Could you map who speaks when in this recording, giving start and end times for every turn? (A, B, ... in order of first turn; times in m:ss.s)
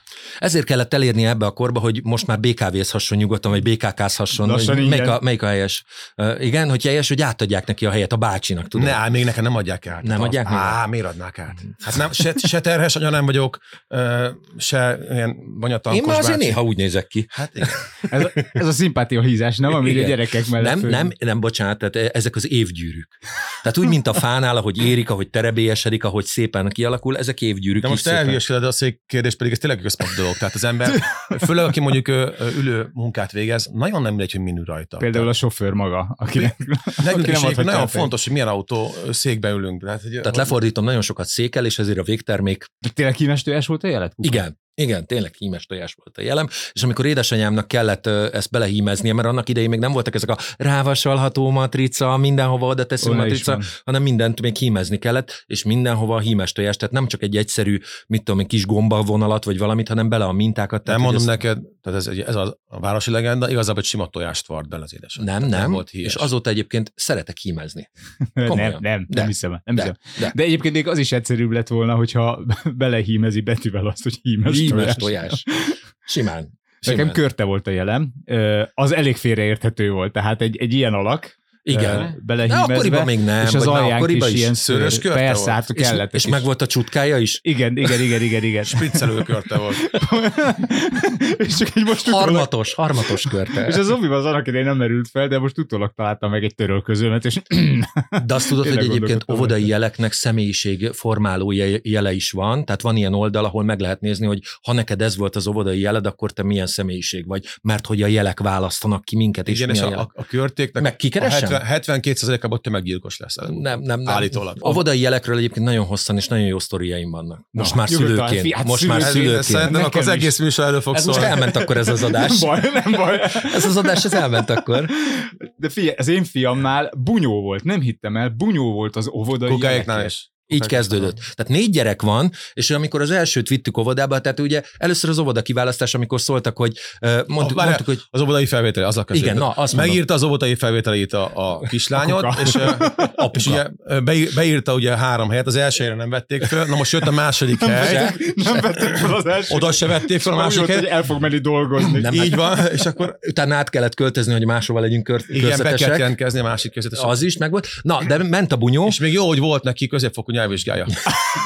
0:00.4-0:09.0 A
0:04.4-0:05.2 B
0:08.8-0:16.6 C
0:10.0-0:10.8 A
0:15.9-0:17.7 A
0:17.3-0:17.9 C
0:18.1-0:21.1 B
0:19.8-0:28.4 A
0:27.8-0:35.3 C
0:35.0-0:38.1 B
0:37.0-0:40.5 C
0:40.2-0:42.7 A
0:42.8-0:44.4 B
0:44.2-1:01.4 A
0:53.0-0:53.7 B
1:00.9-1:06.3 C
1:05.2-1:07.9 A
1:08.4-1:15.8 B
1:08.4-1:10.4 A
1:14.4-1:15.4 A
1:16.0-1:17.2 A
1:16.8-1:26.5 B
1:21.6-1:24.5 A
1:21.7-1:22.2 C
1:24.6-1:25.6 C
1:25.8-1:27.4 A
1:27.4-1:28.9 B
1:28.6-1:29.9 C
1:29.9-1:32.5 B
1:32.0-1:33.9 A
1:33.5-1:39.7 B
1:38.2-1:50.1 A
1:49.5-1:54.8 C
1:50.8-1:51.6 A
1:53.5-1:59.7 A
1:57.6-2:00.3 B
1:59.0-2:01.3 C
2:00.9-2:04.9 A
2:01.2-2:10.1 B
2:09.4-2:11.1 C
2:10.5-2:18.0 A
2:17.4-2:28.1 C
2:19.1-2:20.0 A
2:22.0-2:23.1 B
2:23.0-2:23.6 A
2:27.6-2:32.3 B
2:27.7-2:28.3 A
2:29.5-2:30.9 C
2:32.0-2:33.2 C
2:32.0-2:32.4 A
2:33.1-2:36.1 A
2:35.3-2:37.2 C
2:37.0-2:39.0 A
2:38.8-2:41.0 C